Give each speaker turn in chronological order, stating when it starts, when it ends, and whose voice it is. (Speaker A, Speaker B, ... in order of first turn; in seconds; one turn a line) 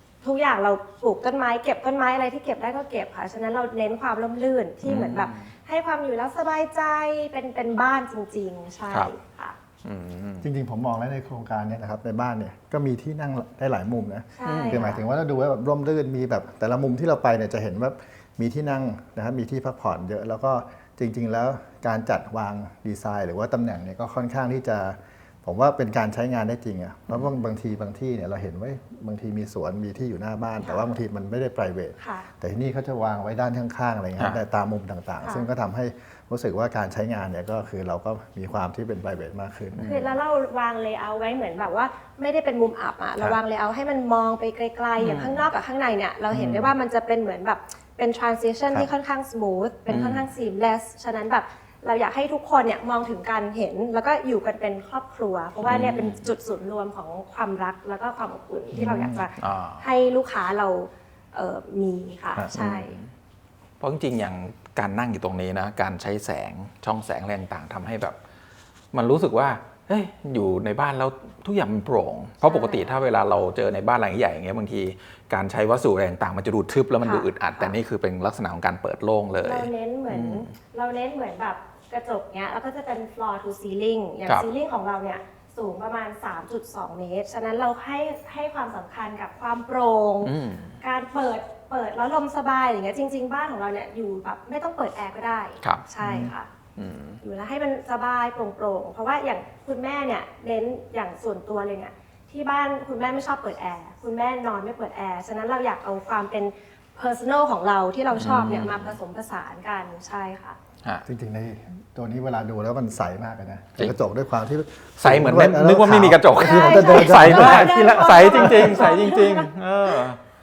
Speaker A: 0.2-9.6
Speaker B: 4.8-5.5
Speaker B: 9.8-10.5
Speaker C: 10.4-40.1
Speaker A: 14.4-15.0
Speaker B: 14.4-14.9
Speaker A: 32.0-32.3
Speaker B: 39.7-40.1
Speaker A: 39.9-63.0
Speaker B: 45.0-45.5
Speaker C: 46.3-46.7
Speaker B: 49.9-50.3
Speaker B: 55.7-56.3
Speaker C: 58.7-59.3
Speaker B: 59.4-59.8
Speaker B: 62.5-63.1
Speaker B: 63.8-68.2
Speaker B: 68.9-80.5
Speaker A: 72.5-72.9
Speaker A: 77.0-77.7
Speaker A: 79.4-96.5
Speaker B: 90.2-90.8
Speaker C: 96.0-96.3
Speaker B: 96.8-97.2
Speaker A: 97.2-110.6
Speaker B: 108.2-109.0
Speaker C: 111.0-118.8
Speaker B: 115.0-120.2
Speaker A: 116.4-120.0